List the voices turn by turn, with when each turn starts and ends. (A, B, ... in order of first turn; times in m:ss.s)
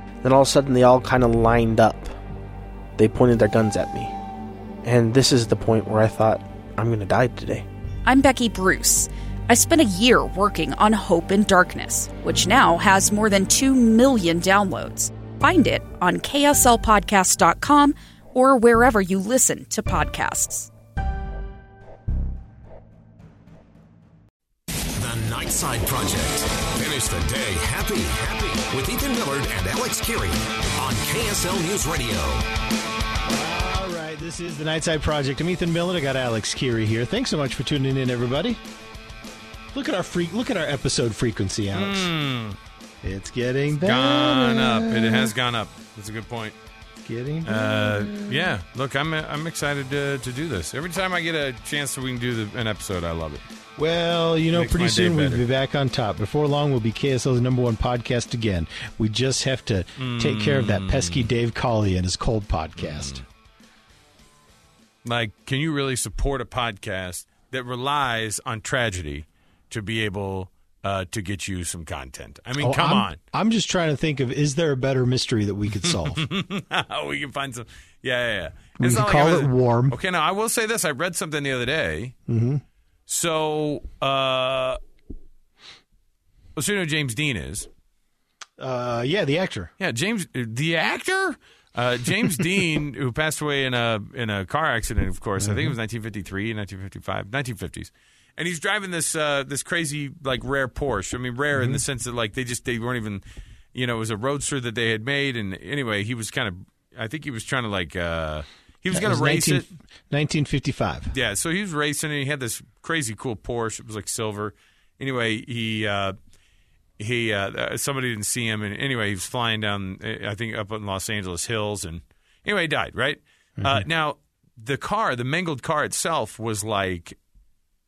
0:00.2-0:02.1 A
0:03.0-0:04.1 A
0:04.8-0:07.7 A
0:08.0-0:20.7 B
0:24.9-0:32.4 C
0:33.3-0:38.6 D
0:39.7-0:42.1 D
0:41.7-0:42.6 E
0:43.0-0:45.3 D
0:43.7-0:46.6 E
0:47.0-0:48.6 D
0:47.4-0:53.4 E
0:53.8-1:03.2 D
0:54.5-0:55.4 E
1:00.0-1:01.3 E
1:02.8-1:03.2 E
1:05.0-1:13.2 E
1:12.6-1:16.2 D
1:15.9-1:22.2 E
1:18.8-1:20.0 D
1:22.3-1:22.6 D
1:23.1-1:24.8 E
1:26.6-1:27.7 E
1:28.6-1:29.7 D
1:29.8-1:43.2 E
1:35.4-1:35.8 D
1:41.5-1:41.8 D
1:43.7-1:49.7 E
1:48.9-1:51.1 D
1:51.1-1:56.2 E
1:57.0-2:07.2 E
2:03.6-2:03.9 D